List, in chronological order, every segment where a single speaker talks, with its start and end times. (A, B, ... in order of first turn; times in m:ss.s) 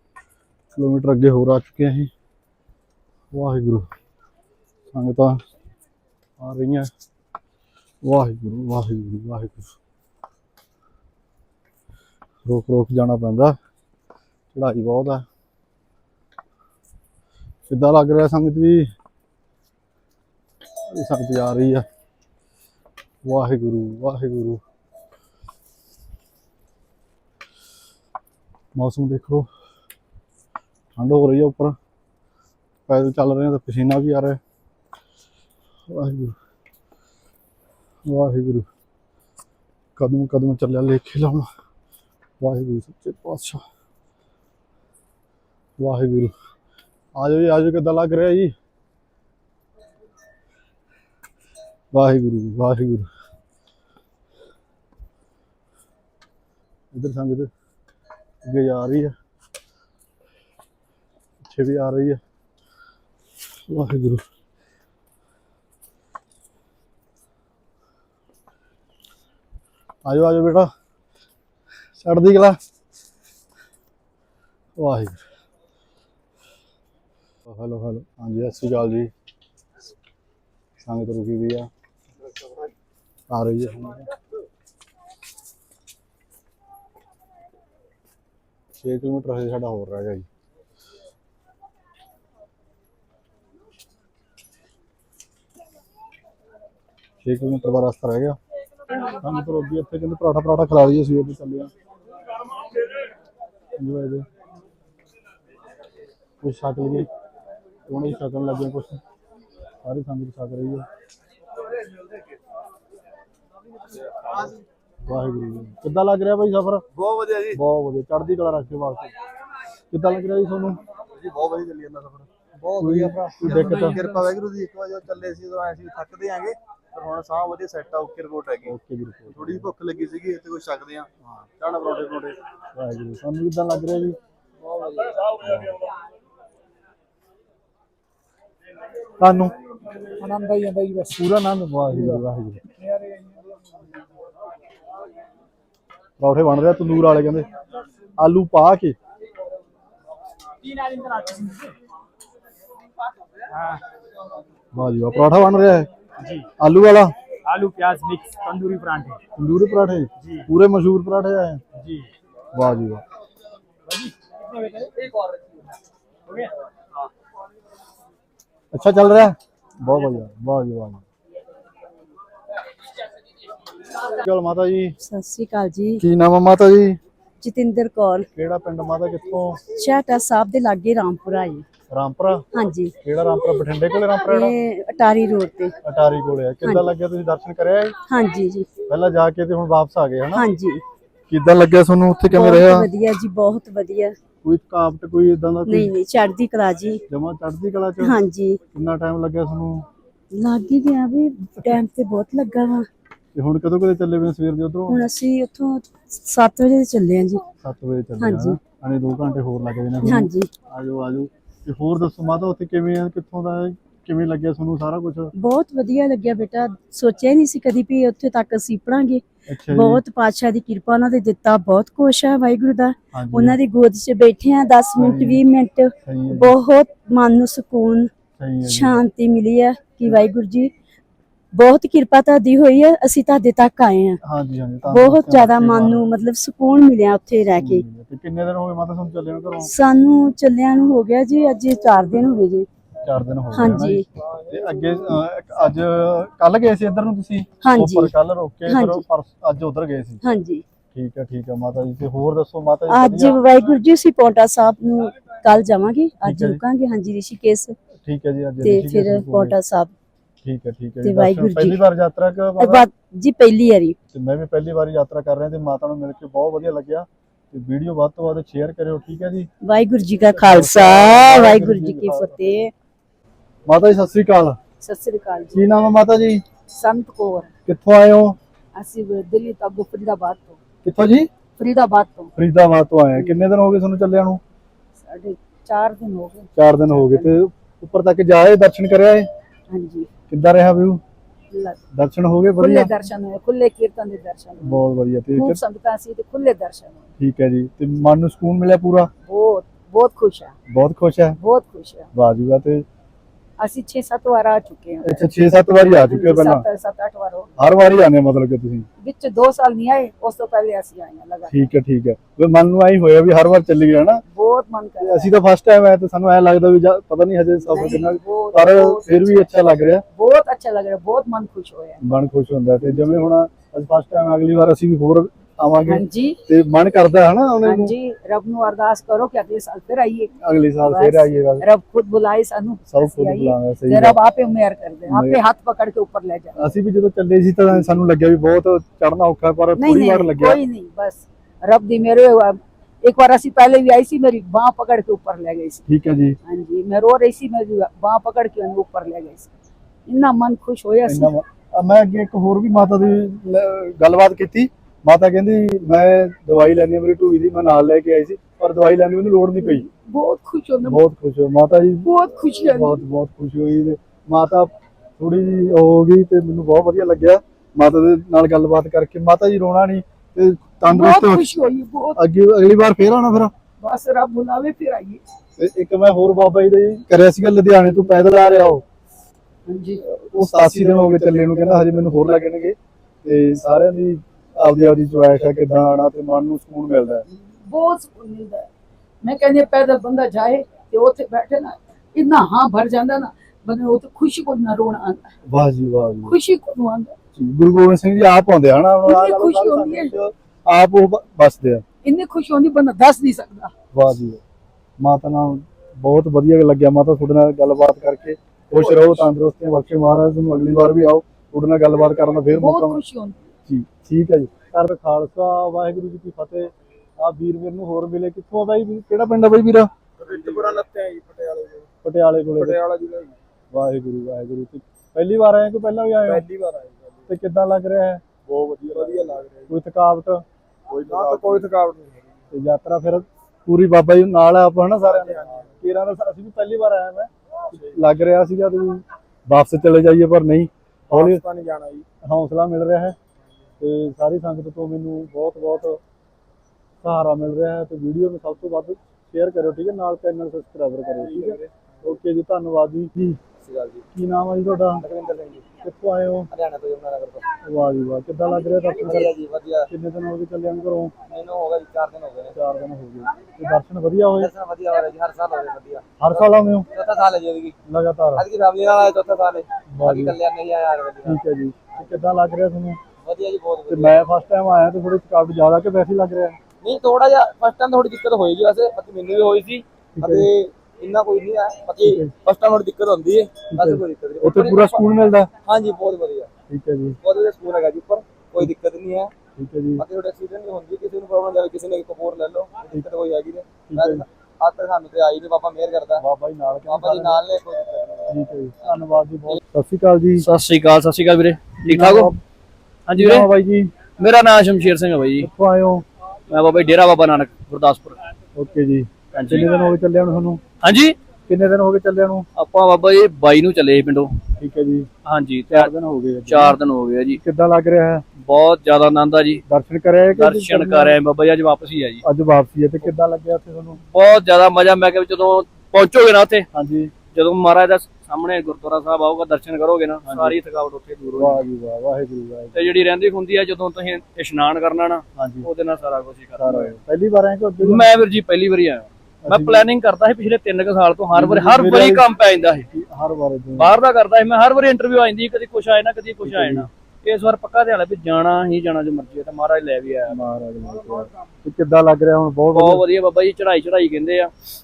0:00.7-0:02.1 A
0:03.3-0:03.9 A
0:04.9-0:05.4 A
0:06.4-0:06.9 A
0:08.0-0:09.7 A
0:12.4-0:13.6 A
0:14.5-0:15.2 A
0:17.7-0:18.9 A
0:20.9-0:21.8 A
0:23.2-0:24.6 A
0:28.7-0:29.5 A
0:31.0-0:31.8 A
0:32.9-0:34.4 A
0:35.9-0:36.4 A
0:38.0-0:38.7 A
0:40.0-0:41.5 A
0:42.4-0:43.6 A
0:45.8-0:46.3 A
0:47.2-0:48.5 A
0:51.9-0:53.1 A
0:56.9-0:57.5 A
0:58.4-0:59.1 A
1:01.4-1:02.2 A
1:03.7-1:04.2 A
1:10.0-1:10.7 A
1:12.0-1:12.6 A
1:14.8-1:15.2 A
1:17.5-1:19.1 A
1:20.8-1:21.7 A
1:23.3-1:24.1 A
1:28.8-1:30.2 A
1:37.2-1:38.4 A
1:39.2-1:41.7 A
1:43.8-1:44.2 A
1:46.4-1:47.1 A
1:47.9-1:49.0 A
1:49.8-1:50.8 A
1:55.1-1:56.8 A
1:57.5-1:59.1 A
1:59.9-2:00.8 A
2:01.4-2:02.2 B
2:02.6-2:03.3 C
2:02.8-2:04.3 A
2:04.4-2:06.5 B
2:07.3-2:08.5 B
2:08.6-2:09.7 A
2:09.9-2:11.0 B
2:11.6-2:12.3 B
2:12.7-2:14.2 A
2:15.4-2:15.8 A
2:19.2-2:19.5 A
2:20.2-2:21.0 D
2:21.1-2:22.6 A
2:26.2-2:27.5 A
2:28.2-2:29.0 A
2:31.0-2:31.5 E
2:34.7-2:35.9 A
2:36.6-2:37.1 A
2:37.4-2:39.2 E
2:39.3-2:41.6 A
2:42.5-2:43.0 A
2:48.7-2:51.0 A
2:54.0-2:54.9 A
2:55.0-2:56.0 F
2:56.0-2:57.0 A
2:57.4-2:58.3 F
2:58.3-2:59.6 A
2:59.7-3:01.6 F
3:01.9-3:02.4 A
3:02.5-3:02.9 F
3:03.0-3:04.5 A
3:04.2-3:05.7 F
3:05.8-3:07.9 A
3:06.6-3:06.9 F
3:08.1-3:08.7 F
3:08.8-3:10.4 A
3:10.3-3:10.8 F
3:11.3-3:12.9 A
3:12.3-3:14.2 F
3:14.4-3:15.9 A
3:15.7-3:17.0 F
3:17.1-3:18.2 A
3:18.0-3:18.6 F
3:18.7-3:19.8 A
3:20.3-3:22.9 F
3:23.3-3:25.0 A
3:24.9-3:27.4 F
3:27.6-3:35.3 A
3:28.2-3:28.6 F
3:30.0-3:30.5 F
3:35.4-3:48.1 F
3:39.5-3:40.0 A
3:43.1-3:43.6 A
3:45.0-3:45.4 A
3:46.0-3:46.6 A
3:48.4-3:49.0 A
3:48.6-3:50.7 F
3:51.5-3:54.2 F
3:54.2-3:56.1 A
3:54.9-3:57.8 F
3:57.6-3:59.7 A
3:59.6-4:02.7 F
4:03.0-4:10.2 A
4:03.5-4:04.0 F
4:07.6-4:08.1 F
4:08.7-4:09.0 F
4:10.2-4:10.6 F
4:10.9-4:13.4 A
4:12.9-4:17.8 F
4:16.2-4:16.6 A
4:18.0-4:19.6 A
4:18.6-4:19.9 F
4:20.4-4:22.8 A
4:21.0-4:21.8 F
4:22.6-4:24.0 F
4:24.1-4:29.5 A
4:29.6-4:32.7 F
4:30.3-4:32.6 A
4:33.7-4:34.6 A
4:34.8-4:35.6 D
4:35.5-4:36.4 A
4:36.7-4:37.5 D
4:37.6-4:38.4 A
4:38.7-4:40.6 D
4:40.8-4:41.3 A
4:41.6-4:42.3 D
4:42.4-4:44.4 A
4:45.0-4:47.3 D
4:46.6-4:49.3 A
4:49.7-4:50.1 D
4:50.3-4:51.0 A
4:51.5-4:51.8 D
4:51.9-4:52.9 A
4:52.6-4:57.1 D
4:54.6-4:55.6 A
4:57.2-4:59.1 A
4:59.2-5:00.5 D
5:00.7-5:01.4 A
5:01.4-5:02.1 D
5:02.1-5:02.8 A
5:03.6-5:07.5 D
5:05.0-5:06.6 A
5:07.6-5:08.9 A
5:09.0-5:11.5 D
5:11.5-5:14.2 A
5:14.3-5:15.3 D
5:15.0-5:20.0 A
5:17.7-5:19.5 D
5:20.1-5:22.0 D
5:22.0-5:27.9 A
5:25.9-5:26.4 D
5:27.6-5:30.3 D
5:30.4-5:31.6 A
5:30.8-5:36.6 D
5:32.9-5:34.2 A
5:35.1-5:35.4 A
5:36.6-5:40.6 A
5:39.8-5:45.8 D
5:45.9-5:46.4 A
5:46.4-5:49.5 D
5:50.0-5:51.3 D
5:51.0-5:59.9 A
5:59.6-6:01.0 D
6:00.8-6:11.5 A
6:02.0-6:03.0 D
6:10.9-6:12.2 D
6:12.2-6:13.5 A
6:13.8-6:15.2 D
6:15.6-6:18.8 A
6:19.6-6:20.0 D
6:20.2-6:27.2 A
6:27.4-6:28.7 D
6:29.2-6:35.3 D
6:35.4-6:36.3 A
6:36.2-6:37.1 D
6:37.3-6:41.8 A
6:39.0-6:40.2 D
6:42.0-6:43.7 D
6:43.9-6:44.4 A
6:45.0-6:53.0 A
6:52.5-6:53.5 D
6:53.7-6:59.9 A
7:00.2-7:01.8 C
7:02.0-7:02.8 A
7:02.6-7:03.3 C
7:03.7-7:06.4 A
7:06.3-7:07.0 C
7:07.3-7:08.2 A
7:08.6-7:09.5 C
7:09.7-7:10.4 A
7:11.0-7:12.1 C
7:12.5-7:21.4 A
7:22.2-7:23.2 A
7:23.8-7:26.0 A
7:27.0-7:33.4 A
7:31.2-7:31.7 C
7:33.6-7:34.0 C
7:34.1-7:35.0 A
7:35.0-7:35.6 C
7:35.8-7:36.5 A
7:36.5-7:37.4 C
7:37.6-7:39.3 A
7:39.1-7:39.9 C
7:39.9-7:41.1 A
7:41.3-7:42.5 C
7:42.5-7:44.5 A
7:44.4-7:47.8 C
7:46.2-7:46.9 A
7:47.9-7:48.4 A
7:48.4-7:51.4 C
7:49.9-7:50.4 A
7:51.2-7:53.0 A
7:53.2-7:54.2 C
7:53.9-7:56.6 A
7:56.8-8:05.0 C
8:00.2-8:00.5 A
8:02.0-8:02.3 A
8:03.7-8:05.5 A
8:05.6-8:06.5 C
8:06.7-8:07.2 A
8:07.2-8:09.3 C
8:09.6-8:10.0 A
8:10.0-8:16.2 C
8:13.9-8:14.2 A
8:16.2-8:17.4 A
8:16.9-8:18.3 C
8:18.3-8:20.5 A
8:20.4-8:22.3 G
8:21.8-8:22.4 A
8:23.1-8:23.5 G
8:23.2-8:23.9 A
8:24.2-8:25.5 G
8:25.4-8:26.0 A
8:26.5-8:28.2 G
8:28.5-8:30.6 A
8:29.3-8:29.7 G
8:30.8-8:31.2 G
8:31.5-8:32.5 A
8:32.6-8:34.3 G
8:34.6-8:35.1 A
8:35.2-8:35.9 G
8:35.7-8:36.8 A
8:36.5-8:37.4 G
8:37.3-8:38.2 A
8:38.4-8:39.6 G
8:39.7-8:41.2 A
8:40.3-8:42.2 G
8:42.2-8:44.0 A
8:44.1-8:46.6 G
8:46.7-8:47.1 A
8:47.3-8:51.6 G
8:50.2-8:50.6 A
8:51.4-8:52.9 A
8:52.7-8:56.9 G
8:55.4-8:55.7 A
8:56.6-8:58.1 A
8:57.8-9:02.8 G
8:59.4-8:59.9 A
9:01.3-9:02.3 A
9:02.9-9:04.0 A
9:03.8-9:10.4 G
9:06.4-9:06.9 A
9:10.3-9:13.0 A
9:12.7-9:14.5 G